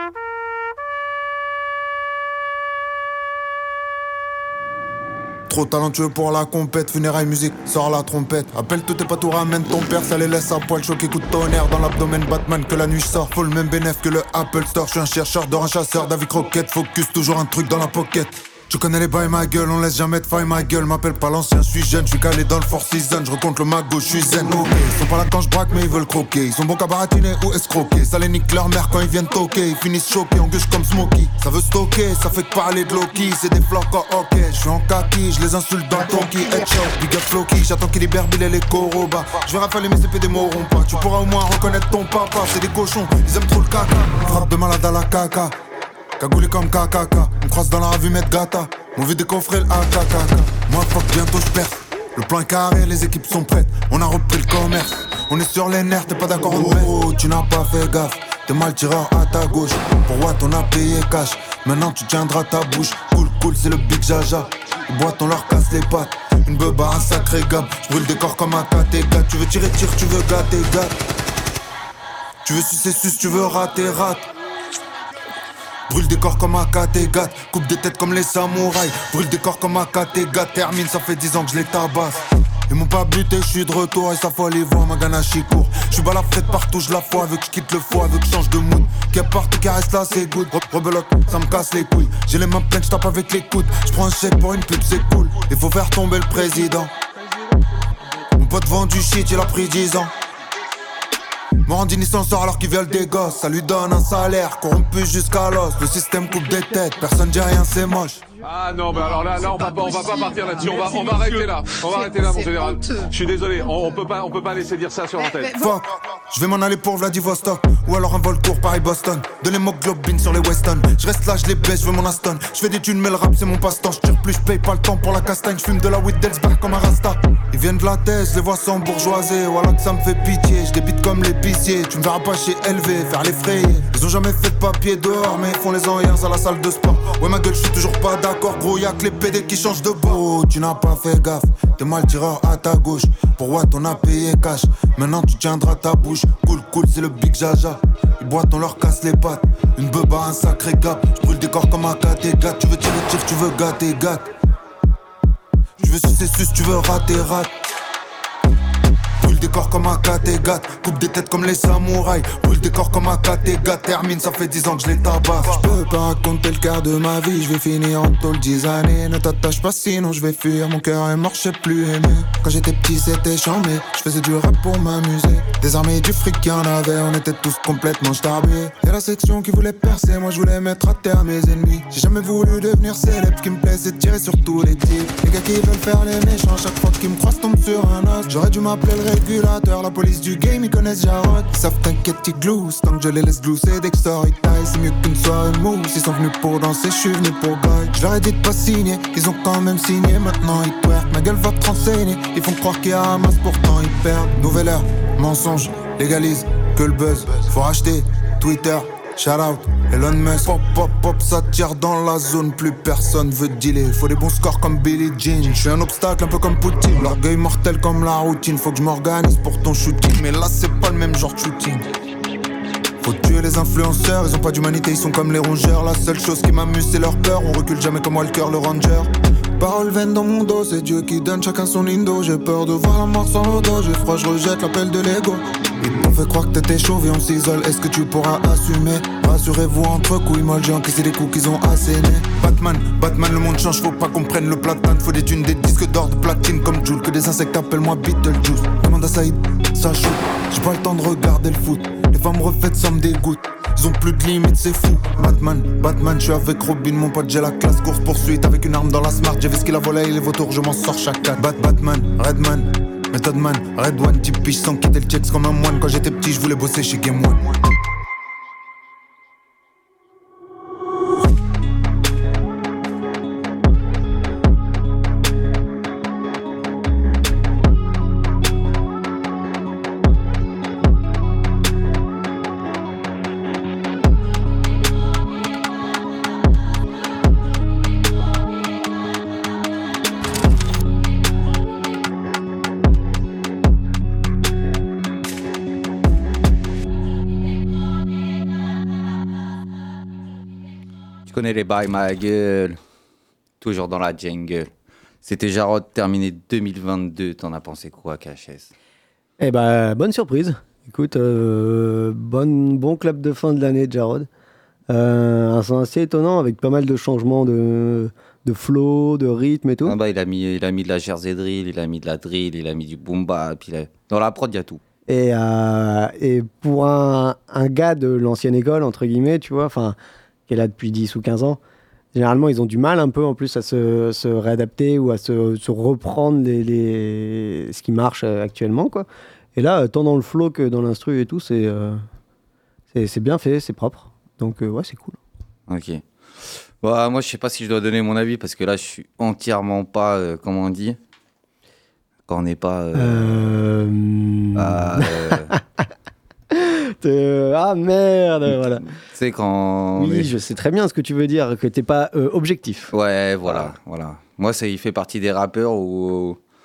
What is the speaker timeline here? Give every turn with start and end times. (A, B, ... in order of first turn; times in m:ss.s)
0:05.5-0:45.5 A
0:46.2-1:11.0 A
1:12.4-1:14.3 A
1:15.9-1:36.9 A
1:38.4-1:40.1 A
1:41.6-1:48.2 A
1:48.4-1:55.5 B
1:55.6-2:34.3 A
2:35.8-2:37.5 A
2:39.2-3:41.8 A
3:43.0-4:27.6 A
5:01.2-5:02.8 C
5:03.6-5:04.7 C
5:05.2-5:08.7 C
5:09.4-5:14.3 D
5:14.9-5:20.0 D
5:19.8-5:24.8 C
5:25.1-5:30.0 D
5:30.5-5:31.6 D
5:32.1-5:42.0 D
5:42.9-5:45.2 D
5:45.7-5:51.0 C
5:52.3-5:53.5 C
5:52.9-5:55.6 D
5:54.5-5:55.5 C
5:56.5-5:58.8 D
5:58.5-6:00.3 C
6:00.0-6:02.9 D
6:02.9-6:06.4 C